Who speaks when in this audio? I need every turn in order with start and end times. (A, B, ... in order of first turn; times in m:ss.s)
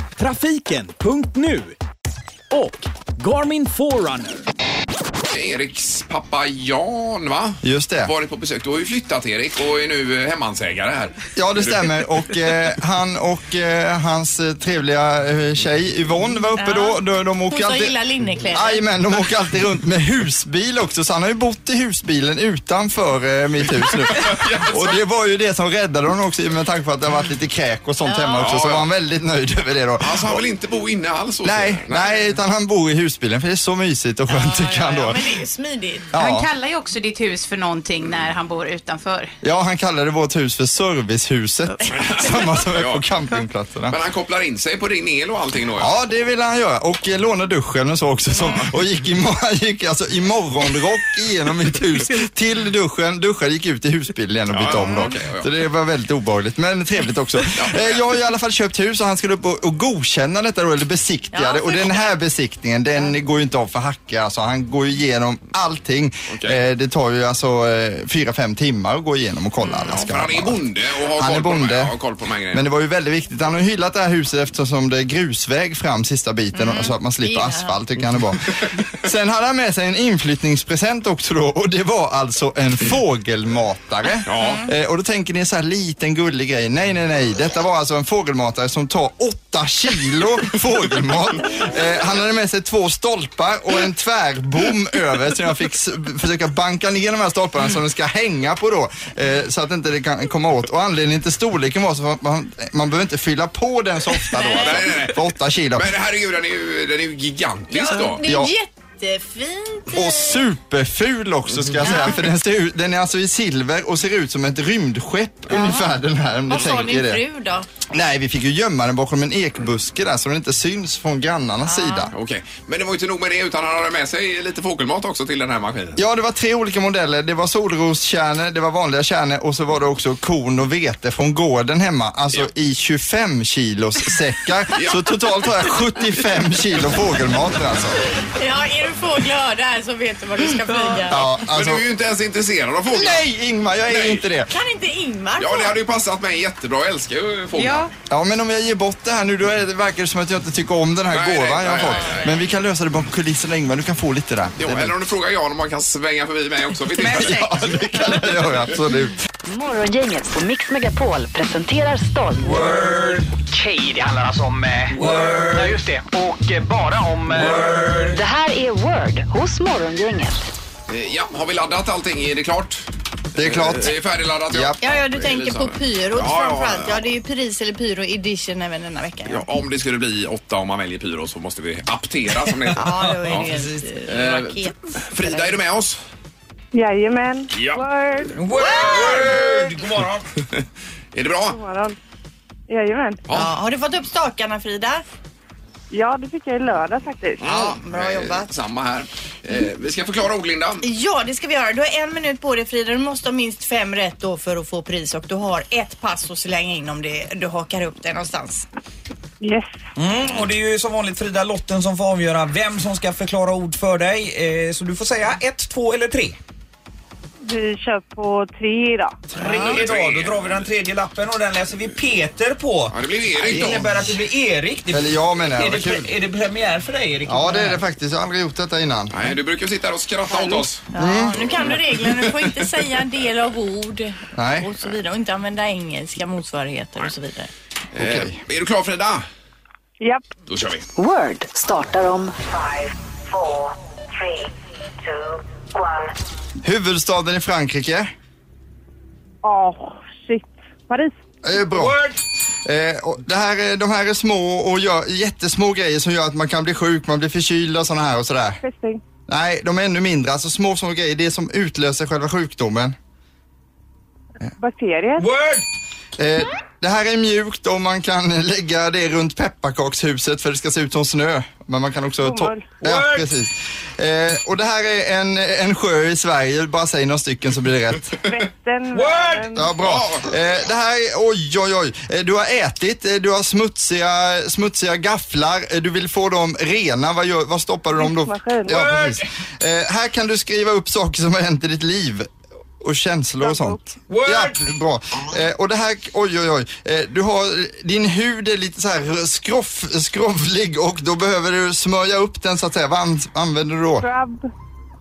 0:00.2-0:01.8 A
0:02.5-0:04.4 A
0:05.3-0:12.1 B
0:07.6-0:08.1 C
0:11.4-0:30.4 C
0:16.6-0:17.0 D
0:17.5-0:18.8 D
0:24.1-0:25.0 B
0:28.0-0:28.5 D
0:28.4-0:28.9 B
0:30.0-0:32.2 B
0:31.4-0:35.3 C
0:34.3-0:36.1 D
0:36.1-0:36.5 C
0:36.1-0:39.3 E
0:39.4-0:44.0 C
0:41.9-0:43.0 B
0:43.9-0:45.9 B
0:45.8-1:10.6 C
0:48.4-0:48.7 B
0:54.5-0:55.5 B
0:57.5-0:58.0 B
1:01.3-1:02.1 D
1:06.3-1:06.6 B
1:09.6-1:10.1 D
1:09.9-1:12.6 B
1:11.2-1:11.9 C
1:12.5-1:45.9 C
1:16.5-1:17.8 D
1:24.2-1:24.6 B
1:24.4-1:24.7 D
1:44.4-1:44.7 D
1:44.5-1:48.2 B
1:47.7-1:50.4 D
1:47.9-1:48.5 C
1:49.9-1:57.2 C
1:51.6-1:52.0 B
1:51.8-1:52.2 D
1:55.5-1:55.9 D
1:56.5-1:57.6 D
1:57.9-2:02.1 C
2:01.6-2:02.1 D
2:02.1-2:06.0 B
2:06.0-2:18.0 C
2:14.7-2:15.1 B
2:18.2-2:21.2 D
2:21.1-2:21.8 C
2:21.1-2:23.2 B
2:22.9-2:24.5 C
2:23.9-2:24.2 B
2:24.5-2:25.8 D
2:25.4-2:27.9 B
2:28.1-2:35.0 C
2:31.1-2:32.4 B
2:34.6-2:38.5 B
2:37.0-2:39.2 C
2:37.1-2:37.9 F
2:39.4-2:42.7 G
2:42.4-2:43.4 F
2:43.5-2:47.6 H
2:44.9-2:45.8 F
2:47.3-2:48.2 F
2:48.1-2:50.4 G
2:50.9-2:57.0 B
2:53.3-2:53.9 C
2:54.5-2:54.8 C
2:54.8-2:59.4 D
2:59.3-3:03.5 B
3:02.4-3:03.6 F
3:02.7-3:05.6 D
3:04.0-3:06.0 B
3:06.7-3:09.7 I
3:07.5-3:07.8 B
3:08.3-3:10.2 F
3:08.6-3:09.2 D
3:08.7-3:09.5 B
3:11.1-3:11.6 B
3:11.5-3:12.0 I
3:12.7-3:13.2 I
3:13.3-3:13.5 B
3:13.3-3:15.0 D
3:15.9-3:17.4 I
3:17.4-3:18.5 D
3:17.4-3:20.8 B
3:20.8-3:28.6 D
3:29.4-3:29.7 I
3:30.0-3:36.4 F
3:37.4-3:39.2 I
3:39.3-3:47.8 F
3:39.4-3:39.7 D
3:39.5-3:40.7 B
3:42.9-3:44.0 B
3:44.9-3:46.1 C
3:47.3-3:49.3 C
3:49.1-3:52.7 B
3:50.3-3:57.5 D
3:50.9-3:51.5 C
3:54.4-3:54.7 C
3:57.9-3:59.2 B
3:58.0-3:58.4 C
4:00.0-4:00.2 I
4:00.5-4:00.8 B
4:01.0-4:04.5 G
4:05.1-4:06.1 G
4:06.6-4:08.1 C
4:09.4-4:11.1 I
4:11.4-4:12.0 C
4:11.7-4:12.2 F
4:12.6-4:18.6 C
4:18.6-4:19.0 I
4:19.3-4:23.0 C
4:24.6-4:25.3 I
4:25.2-4:25.6 F
4:26.2-4:38.1 C
4:32.2-4:32.8 I
4:32.8-4:33.3 F
4:38.2-4:39.7 I
4:38.9-4:39.6 F
4:39.5-5:04.1 C
4:39.8-4:40.3 B
4:48.0-4:48.9 I
4:48.7-4:49.2 F
4:53.4-4:53.8 I
4:54.1-4:54.6 F
5:04.0-5:04.5 I